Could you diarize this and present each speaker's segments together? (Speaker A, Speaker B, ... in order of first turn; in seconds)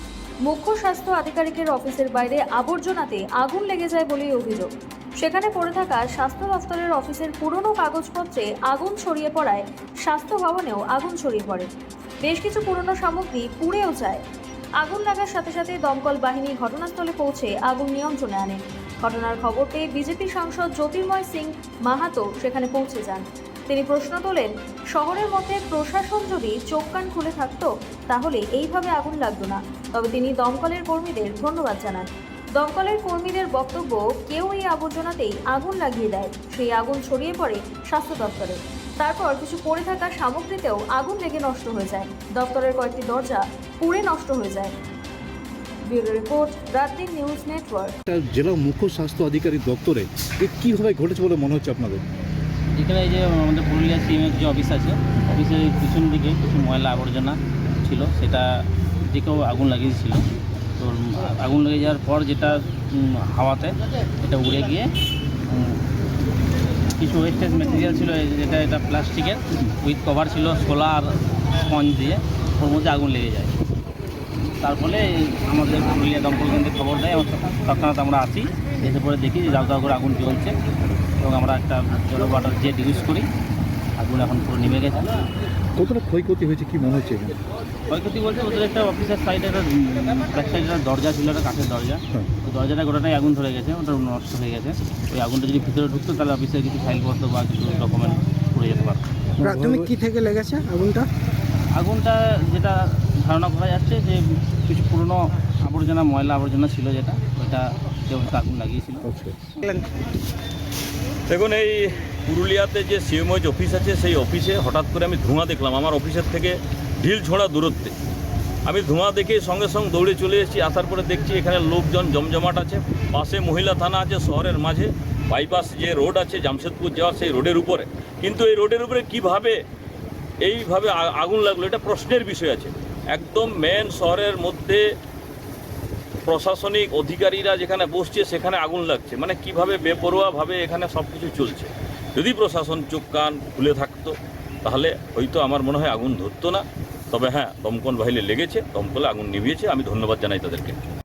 Speaker A: 0.5-4.7, 5.2-11.7, 12.2-14.2, 14.8-44.7, 45.9-48.0
Speaker B: 48.1-52.0, 85.8-87.4, 99.4-99.9, 109.0-109.4
Speaker C: 52.8-60.3, 60.8-64.9, 65.5-65.8, 67.0-73.5, 74.6-80.5, 81.2-83.3, 84.0-85.1, 87.9-99.0, 101.8-109.1
Speaker D: 99.4-101.1, 109.6-109.9
Speaker E: 111.3-117.9, 118.7-129.6, 130.4-134.8, 136.3-150.8